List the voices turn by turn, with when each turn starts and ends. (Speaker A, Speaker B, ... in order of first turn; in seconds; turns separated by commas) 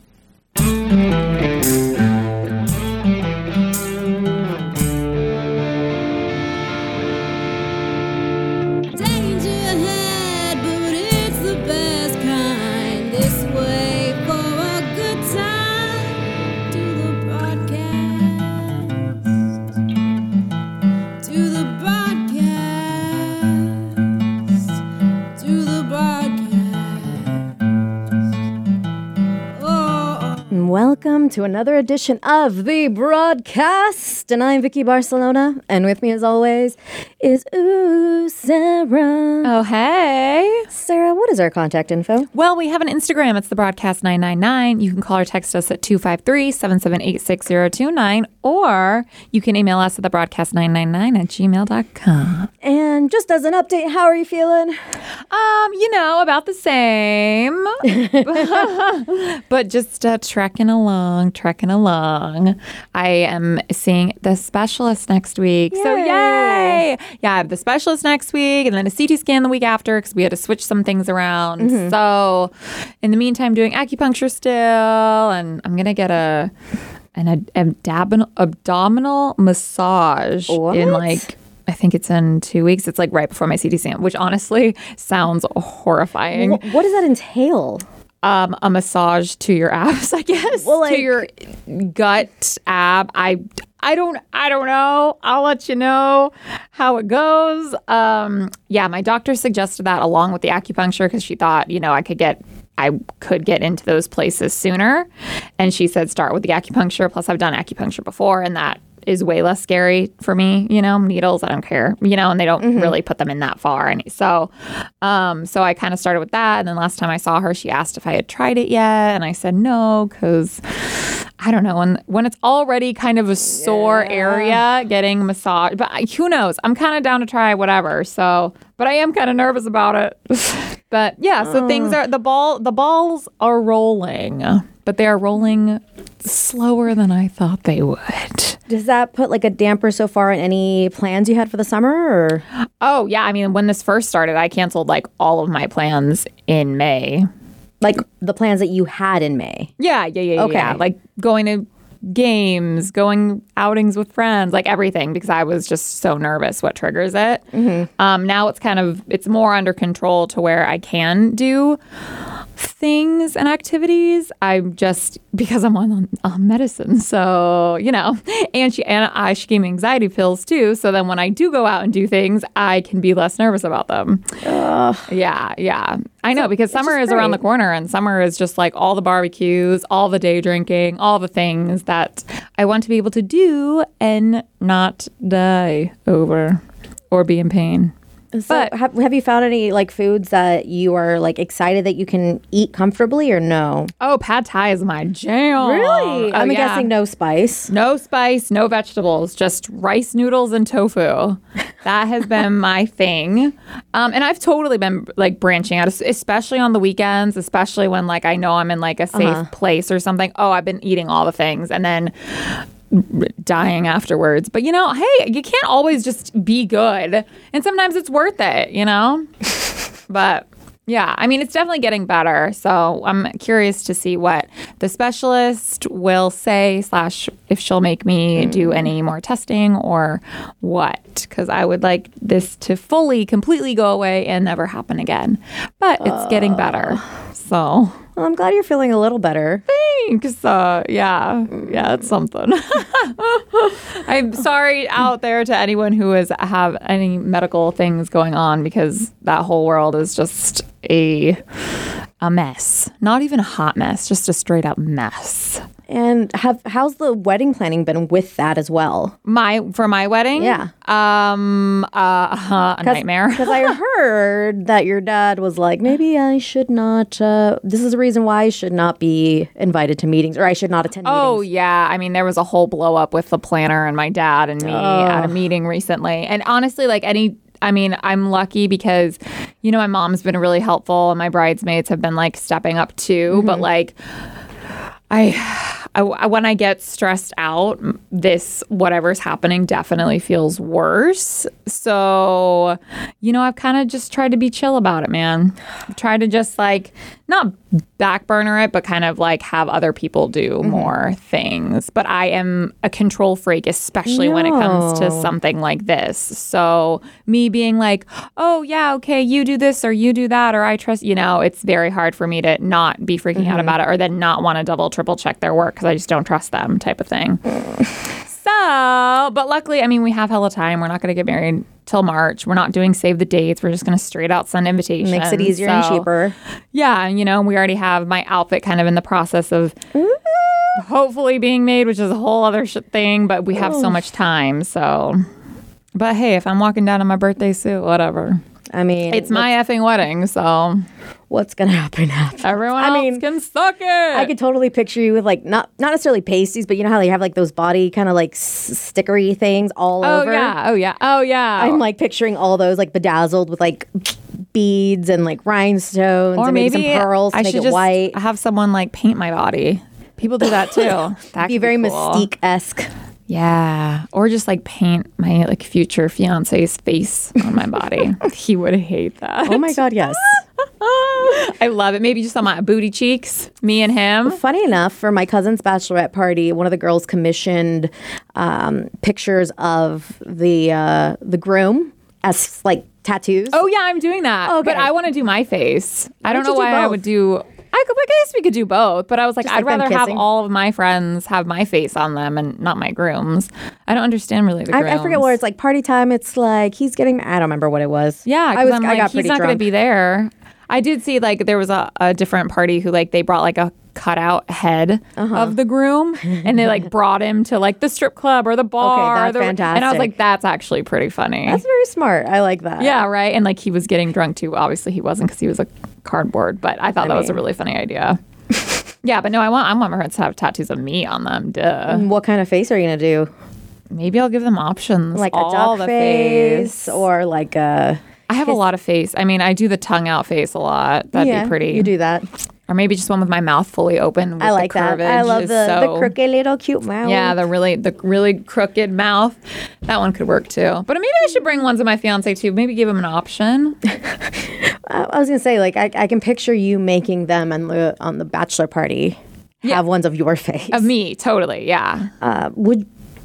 Speaker A: 8.9-16.1, Speaker A: 16.7-19.1, Speaker A: 21.2-24.3, Speaker A: 25.3-27.4, Speaker A: 29.5-30.5, Speaker B: 30.5-39.5, Speaker C: 39.4-40.7, Speaker B: 40.7-42.3, Speaker C: 42.3-52.5, Speaker B: 52.6-54.7, Speaker C: 55.3-72.5, Speaker B: 57.9-58.4, Speaker B: 65.7-66.8, Speaker B: 71.6-71.9, Speaker C: 73.0-76.5, Speaker C: 77.1-86.6, Speaker B: 80.5-81.3, Speaker B: 86.3-87.8, Speaker C: 88.2-105.1, Speaker B: 90.6-91.3, Speaker C: 105.6-114.5, Speaker B: 112.6-113.0, Speaker C: 115.0-138.6, Speaker B: 123.6-124.6, Speaker B: 131.4-132.0, Speaker B: 138.7-142.4, Speaker C: 142.8-147.3, Speaker B: 147.8-149.7, Speaker C: 149.8-157.4, Speaker B: 150.3-150.8, Speaker B: 157.5-157.9, Speaker C: 158.0-161.8, Speaker C: 162.6-174.4, Speaker B: 174.4-175.1, Speaker C: 175.1-187.9, Speaker B: 176.3-177.4, Speaker B: 188.3-193.9, Speaker C: 194.0-196.9, Speaker B: 195.6-197.7, Speaker C: 197.7-219.3, Speaker B: 209.1-209.5, Speaker C: 220.1-238.0, Speaker B: 228.4-228.9, Speaker B: 236.0-237.0, Speaker B: 238.2-239.6, Speaker C: 239.7-251.4, Speaker C: 252.2-255.6, Speaker B: 255.9-259.1, Speaker C: 259.2-263.8, Speaker B: 260.3-260.7, Speaker B: 262.8-271.4, Speaker C: 271.0-283.9, Speaker B: 274.6-275.4, Speaker B: 283.3-283.7, Speaker C: 285.1-317.4, Speaker B: 300.6-300.9, Speaker B: 304.1-305.3, Speaker B: 313.3-313.8, Speaker C: 318.3-326.1, Speaker B: 325.0-326.3, Speaker C: 326.7-329.8, Speaker B: 329.9-330.8, Speaker C: 330.8-335.2, Speaker B: 333.5-334.0, Speaker C: 335.9-338.4, Speaker B: 338.7-339.5, Speaker C: 339.1-340.8, Speaker B: 341.3-343.2, Speaker C: 342.4-344.3, Speaker B: 344.1-350.5, Speaker C: 350.0-351.8, Speaker B: 351.6-358.1, Speaker C: 356.4-362.3, Speaker B: 361.4-362.9, Speaker C: 363.3-374.4, Speaker B: 369.4-370.3, Speaker B: 374.2-383.6, Speaker C: 383.5-395.3, Speaker B: 384.4-384.9, Speaker B: 386.3-387.0, Speaker B: 389.4-390.2, Speaker B: 394.7-399.7, Speaker C: 398.2-411.6, Speaker B: 405.2-405.6, Speaker B: 408.8-410.1, Speaker B: 411.5-413.0, Speaker C: 412.8-418.2, Speaker B: 417.0-417.4, Speaker C: 419.0-422.1, Speaker B: 421.9-423.3, Speaker C: 423.9-427.0, Speaker B: 425.1-428.6, Speaker C: 428.3-431.9, Speaker B: 431.1-432.3, Speaker C: 432.7-436.1, Speaker B: 434.4-437.4, Speaker C: 437.0-443.8, Speaker B: 444.6-450.9, Speaker C: 450.7-452.1, Speaker B: 452.2-452.9